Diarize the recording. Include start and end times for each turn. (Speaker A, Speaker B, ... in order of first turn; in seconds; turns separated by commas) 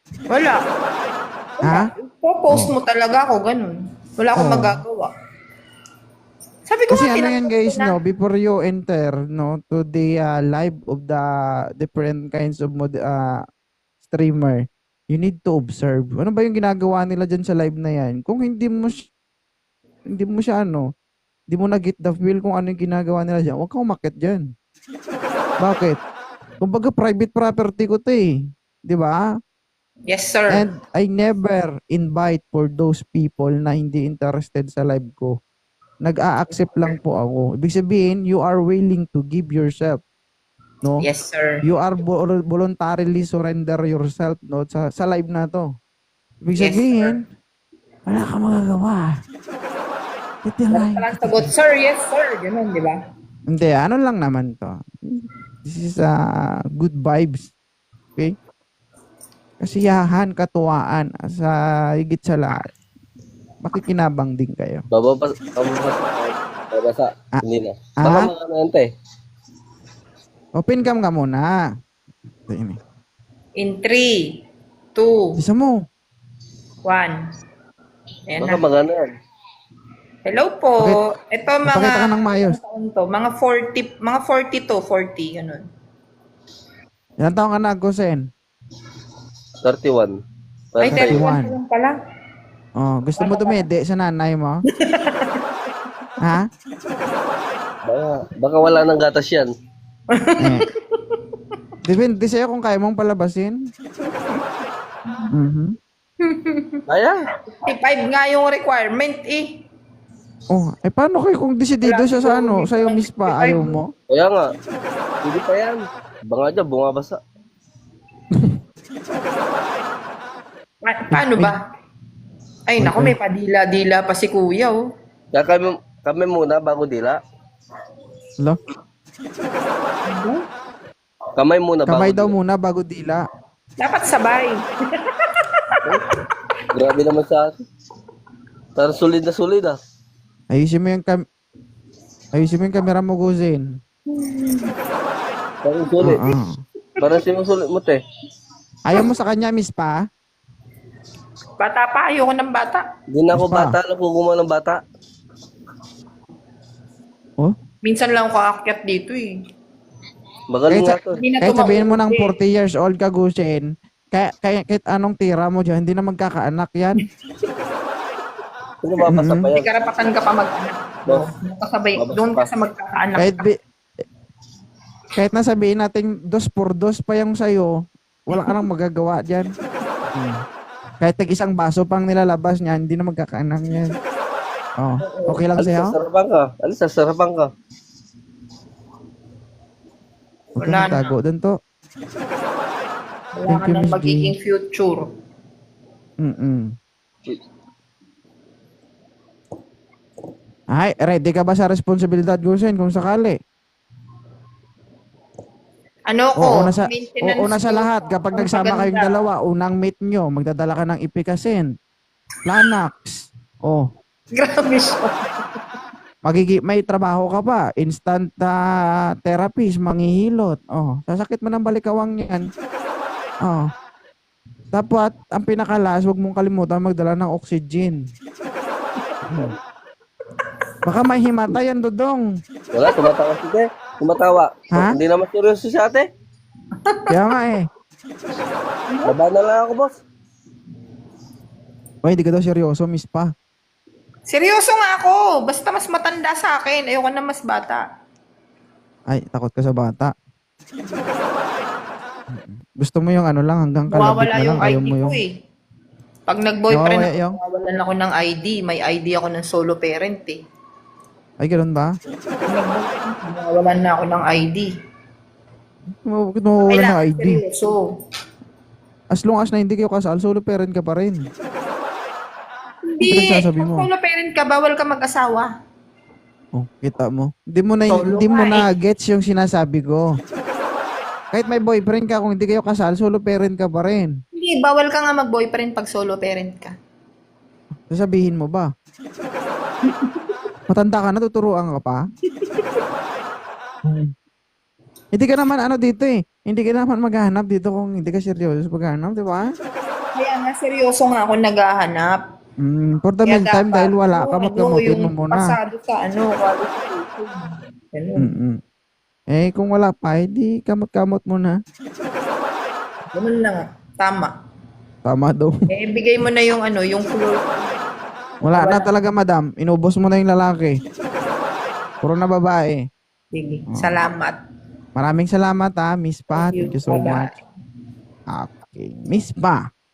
Speaker A: 0.3-0.6, Speaker A: 1.6-5.1, Speaker B: 1.6-1.9, Speaker B: 4.3-4.8, Speaker A: 6.7-7.9, Speaker B: 6.9-11.2, Speaker B: 11.8-13.4, Speaker B: 14.1-19.1, Speaker B: 20.1-20.9, Speaker B: 21.5-24.4, Speaker B: 25.6-26.0, Speaker B: 26.6-28.3, Speaker B: 28.9-29.2, Speaker A: 30.1-30.6, Speaker B: 30.5-35.3, Speaker B: 36.0-40.0, Speaker A: 41.0-41.6, Speaker B: 41.6-45.7, Speaker B: 46.5-47.2, Speaker A: 46.6-47.1, Speaker B: 48.1-49.1, Speaker B: 50.4-51.5, Speaker A: 50.7-53.0, Speaker B: 53.5-56.1, Speaker B: 56.8-57.5, Speaker B: 59.6-62.7, Speaker B: 63.6-64.8, Speaker C: 64.9-68.9, Speaker B: 68.0-68.3, Speaker B: 70.5-71.5, Speaker B: 72.5-72.8, Speaker A: 73.6-74.2, Speaker A: 74.9-75.4, Speaker B: 75.4-75.8, Speaker A: 76.8-77.2, Speaker A: 78.3-78.7, Speaker C: 78.4-79.1, Speaker A: 80.2-85.6, Speaker B: 81.7-82.6, Speaker B: 87.2-88.2, Speaker C: 89.6-90.1, Speaker C: 90.7-91.2, Speaker A: 90.8-91.9, Speaker B: 90.8-91.5, Speaker B: 92.8-94.6, Speaker A: 93.2-93.6, Speaker A: 94.7-95.4, Speaker B: 96.2-96.5, Speaker C: 97.8-99.5, Speaker A: 100.1-101.2, Speaker B: 100.4-100.6, Speaker B: 101.8-103.5, Speaker B: 105.3-105.8, Speaker A: 106.2-106.8, Speaker C: 106.9-107.2, Speaker A: 107.5-109.6, Speaker B: 110.5-113.9, Speaker A: 111.8-113.8, Speaker C: 114.1-114.5, Speaker C: 115.2-115.8, Speaker C: 116.3-117.2, Speaker A: 120.8-121.6, Speaker B: 121.1-121.5, Speaker A: 122.7-124.8, Speaker B: 122.8-123.1, Speaker C: 125.3-127.2, Speaker A: 130.1-130.4, Speaker C: 131.3-132.3, Speaker B: 131.9-133.2, Speaker A: 133.8-135.8, Speaker C: 136.7-137.5, Speaker C: 138.8-139.8, Speaker B: 140.5-141.2, Speaker B: 142.3-143.7, Speaker A: 144.1-144.7, Speaker C: 145.6-146.2, Speaker B: 146.0-146.5, Speaker C: 147.0-148.0, Speaker B: 148.8-150.0, Speaker A: 151.6-152.8, Speaker C: 153.1-154.8, Speaker B: 153.3-153.7, Speaker A: 157.8-159.3, Speaker C: 160.5-161.2, Speaker B: 160.7-167.0, Speaker A: 161.2-162.3, Speaker C: 168.8-169.7, Speaker B: 169.0-169.5, Speaker A: 169.5-173.4, Speaker C: 171.9-172.5, Speaker B: 173.2-173.6, Speaker B: 175.2-177.7, Speaker B: 178.3-179.5, Speaker B: 180.1-180.4, Speaker B: 181.0-183.8, Speaker B: 184.8-185.9, Speaker A: 185.0-185.4, Speaker C: 185.6-187.5, Speaker A: 190.6-191.1, Speaker B: 190.6-191.5, Speaker A: 193.3-195.1, Speaker B: 193.5-194.3, Speaker B: 196.2-196.7, Speaker B: 200.7-203.4, Speaker A: 206.1-209.2, Speaker B: 206.4-211.7, Speaker B: 212.4-213.8, Speaker A: 214.3-215.3, Speaker B: 216.2-218.6, Speaker B: 219.2-222.4, Speaker B: 224.7-228.0, Speaker A: 229.0-229.4, Speaker B: 229.3-229.5, Speaker B: 230.8-232.2, Speaker C: 232.7-236.1, Speaker A: 232.9-233.1, Speaker A: 236.8-237.1, Speaker B: 237.1-237.7, Speaker A: 238.9-239.2, Speaker C: 239.0-239.9, Speaker B: 242.0-243.3, Speaker A: 244.3-247.8, Speaker B: 249.1-250.1, Speaker B: 252.3-255.2, Speaker A: 253.9-255.3, Speaker A: 256.3-260.4, Speaker B: 256.7-257.4, Speaker B: 261.4-261.9, Speaker A: 262.4-264.7, Speaker B: 266.0-267.4, Speaker A: 266.6-267.8, Speaker B: 269.1-271.2, Speaker A: 272.9-275.5, Speaker B: 273.0-273.9, Speaker B: 276.5-280.1, Speaker A: 277.9-278.6, Speaker B: 281.3-284.1, Speaker A: 284.3-286.7, Speaker B: 287.9-288.7, Speaker A: 289.8-290.4, Speaker B: 290.7-292.0, Speaker A: 292.3-292.9, Speaker B: 293.8-294.1, Speaker B: 295.1-299.4, Speaker A: 300.1-302.2, Speaker B: 302.6-305.5, Speaker A: 303.2-308.3, Speaker B: 308.2-308.6, Speaker B: 309.3-311.6, Speaker A: 313.1-314.3, Speaker B: 315.0-315.5, Speaker A: 315.7-317.7, Speaker B: 318.4-320.8, Speaker A: 318.5-318.9, Speaker B: 322.0-322.8, Speaker A: 323.3-324.4, Speaker B: 323.7-324.0, Speaker B: 325.0-327.3, Speaker A: 326.3-327.3, Speaker B: 328.3-329.6